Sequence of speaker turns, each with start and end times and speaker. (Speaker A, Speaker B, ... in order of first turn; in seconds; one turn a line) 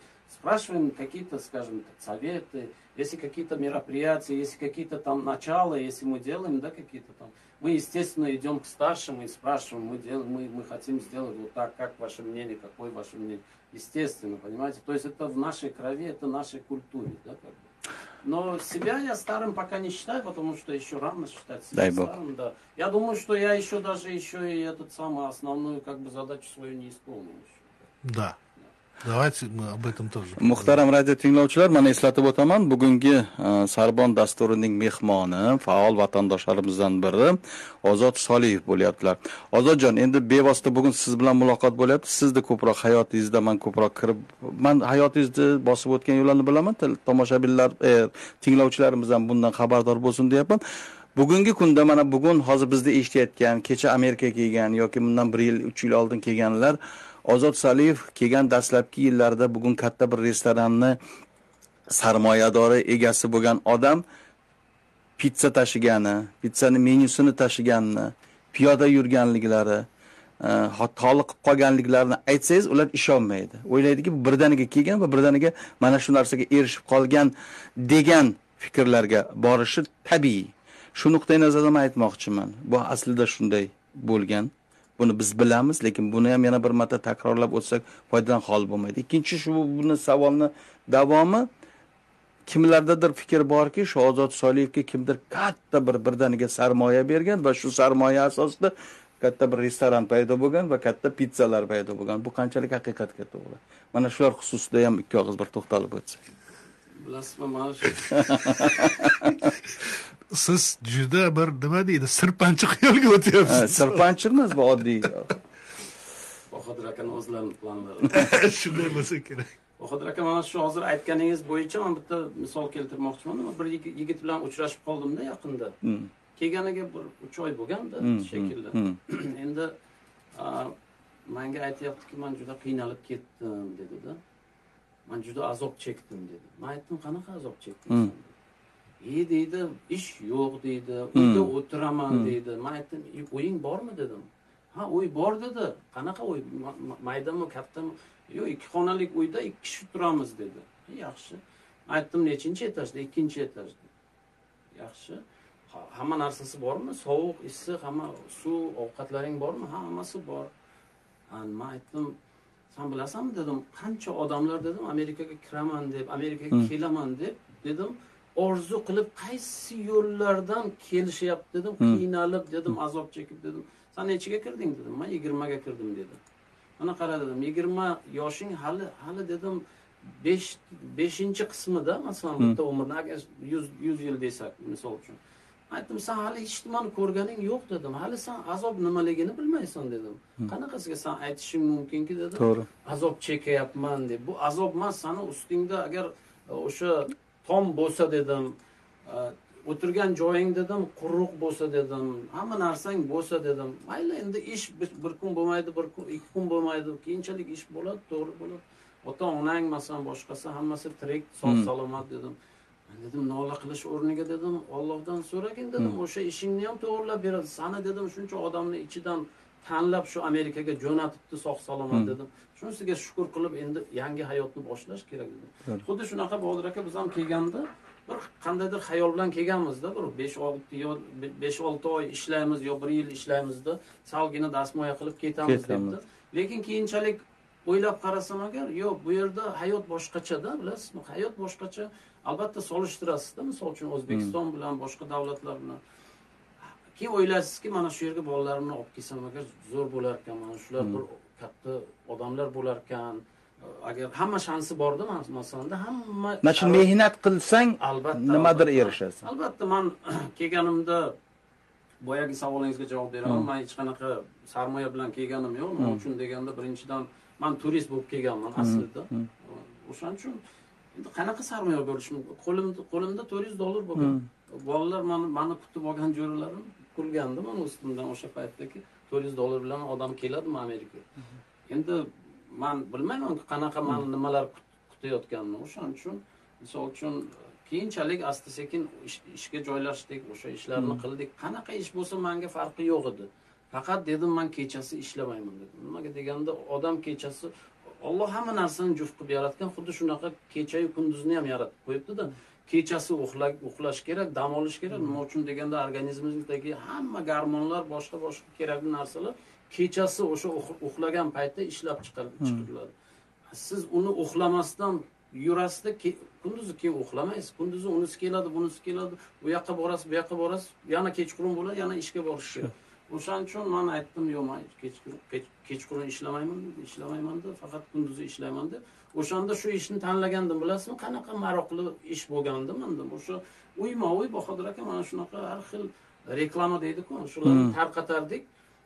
Speaker A: 0.3-17.6
Speaker A: 18.2-27.7
Speaker B: 21.7-22.1
Speaker C: 28.0-28.4
Speaker C: 29.0-30.8
Speaker B: 30.4-50.6
Speaker B: 51.1-61.0
Speaker B: 61.9-64.0
Speaker B: 65.2-69.8
Speaker B: 70.4-91.5
Speaker B: 92.5-106.2
Speaker A: 107.0-108.7
Speaker B: 108.1-109.5
Speaker C: 109.8-114.1
Speaker B: 113.5-115.3
Speaker A: 116.5-118.5
Speaker C: 118.1-119.5
Speaker A: 119.8-125.7
Speaker B: 125.8-126.1
Speaker A: 126.3-129.7
Speaker B: 128.0-129.0
Speaker A: 130.3-130.7
Speaker A: 131.3-134.2
Speaker A: 135.1-138.3
Speaker A: 139.0-153.8
Speaker B: 141.1-141.5
Speaker A: 154.7-160.5
Speaker A: 161.3-162.1
Speaker A: 162.7-176.2
Speaker A: 176.8-185.2
Speaker A: 185.7-198.5
Speaker B: 192.4-192.7
Speaker A: 199.1-212.3
Speaker A: 212.9-245.8
Speaker B: 235.4-236.0
Speaker A: 246.9-256.9
Speaker B: 256.4-259.2
Speaker A: 257.8-261.1
Speaker A: 262.0-270.4
Speaker B: 265.8-266.0
Speaker B: 268.6-269.3
Speaker A: 270.9-281.1
Speaker B: 274.0-274.2
Speaker A: 281.7-312.9
Speaker B: 290.8-291.0
Speaker A: 313.5-338.4
Speaker B: 337.4-337.7